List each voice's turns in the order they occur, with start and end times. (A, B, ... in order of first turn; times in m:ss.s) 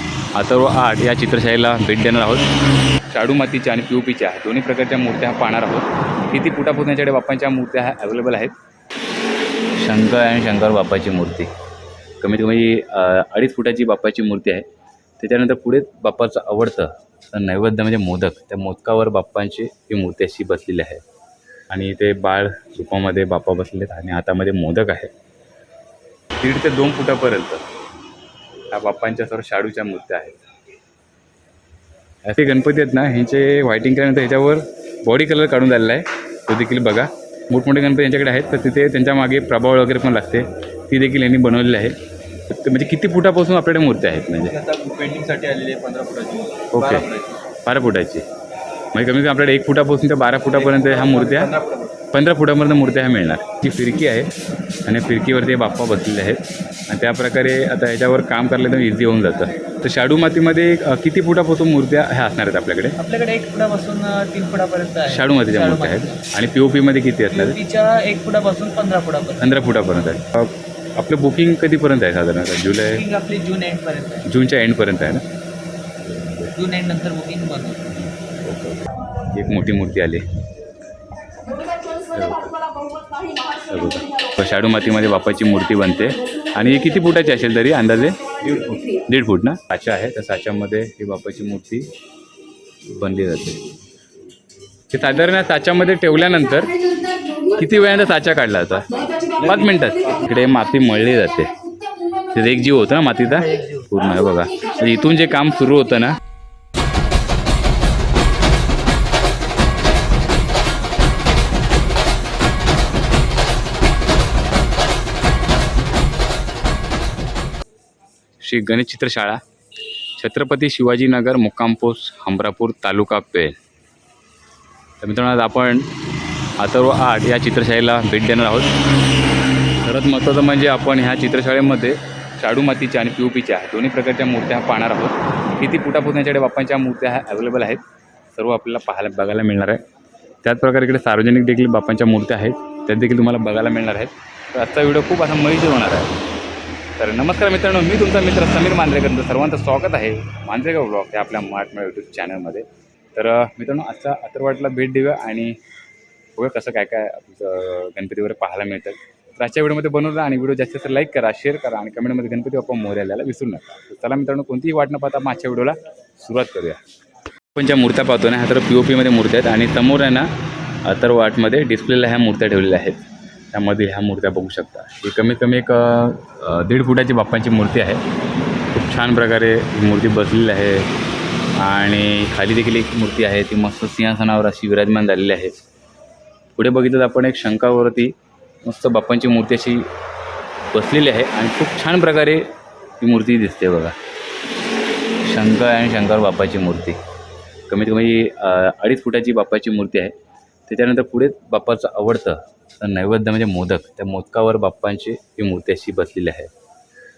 0:00.3-0:02.5 A
0:03.1-0:08.5 A
0:09.8-0:11.5 A
0:12.2-0:14.7 A
0:15.2-0:21.0 A
0:21.7-0:25.1 A
0:26.4-0:27.6 A
0:28.7-0:30.4 A
0:32.2-0:42.0 A
0:42.5-0:44.6 A
0:44.5-0:47.4 B
0:46.7-0:47.1 A
0:47.6-0:48.3 A
0:48.9-0:51.5 A
0:50.5-0:52.0 B
0:52.1-0:54.3 A
0:54.8-1:03.0 A
1:03.0-1:06.2 C
1:05.1-1:07.6 A
1:07.3-1:10.1 C
1:09.4-1:13.0 A
1:12.9-1:14.3 C
1:14.3-1:15.2 A
1:16.0-1:16.5 A
1:16.6-1:17.8 C
1:17.9-1:20.2 A
1:22.1-1:22.6 A
1:23.6-1:31.9 A
1:32.8-1:33.6 A
1:34.9-1:36.8 A
1:37.5-1:38.9 A
1:39.4-1:40.2 B
1:39.4-1:41.5 A
1:42.3-1:46.2 A
1:43.5-1:43.8 C
1:58.4-1:59.4 A
2:00.2-2:03.6 A
2:05.0-2:05.9 A
2:06.6-2:08.8 A
2:09.8-2:17.8 A
2:18.3-2:19.8 A
2:20.4-2:26.2 A
2:27.0-2:35.6 A
2:36.4-2:46.8 A
2:47.6-2:50.3 A
2:50.8-2:58.0 A
2:58.7-3:00.9 A
3:01.6-3:05.6 A
3:06.6-3:09.9 A
3:10.7-3:14.0 A
3:15.2-3:17.0 A
3:17.7-3:20.2 A
3:20.7-3:26.5 A